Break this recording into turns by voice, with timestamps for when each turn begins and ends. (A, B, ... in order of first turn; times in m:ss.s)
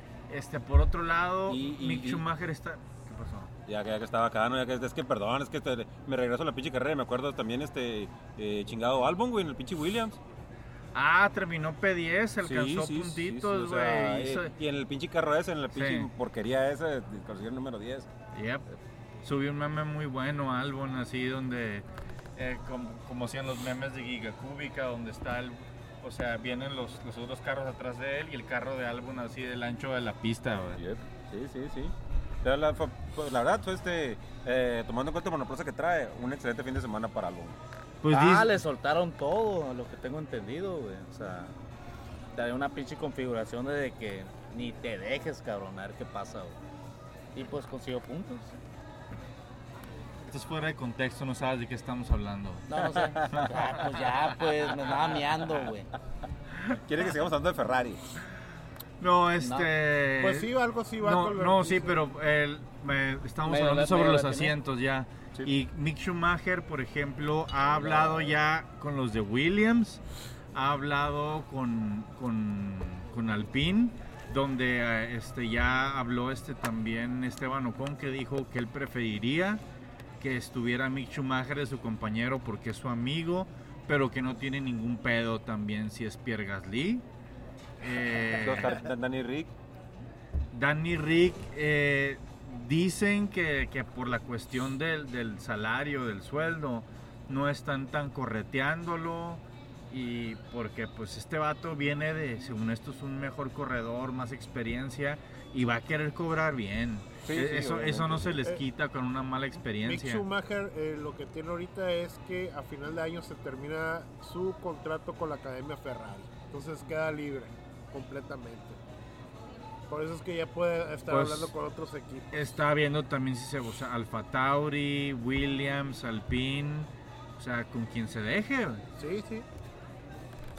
0:00.3-0:03.5 A
0:01.5-0:02.2 B
0:03.7-0:10.2 B
0:10.9-0:14.5 A
0:12.4-0:18.1 B
0:15.7-0:16.1 A
0:18.3-0:18.7 A
0:19.2-0:30.8 A
0:30.8-0:37.6 B
0:38.0-0:38.6 A
0:38.1-0:41.5 C
0:42.3-0:46.6 C
0:47.3-0:48.5 C
0:50.3-0:53.5 A
0:52.7-0:55.9 C
0:53.0-0:53.9 B
0:56.7-0:58.1 B
0:59.0-1:10.0 A
0:59.4-0:59.7 C
1:00.2-1:02.0 D
1:03.4-1:04.5 C
1:10.5-1:19.6 A
1:20.2-1:27.0 A
1:27.8-1:28.8 A
1:28.3-1:29.5 B
1:30.5-1:50.2 A
1:47.2-1:48.4 B
1:49.8-1:58.8 D
1:59.9-2:02.3 D
2:01.1-2:01.5 A
2:02.3-2:08.8 A
2:09.0-2:09.5 D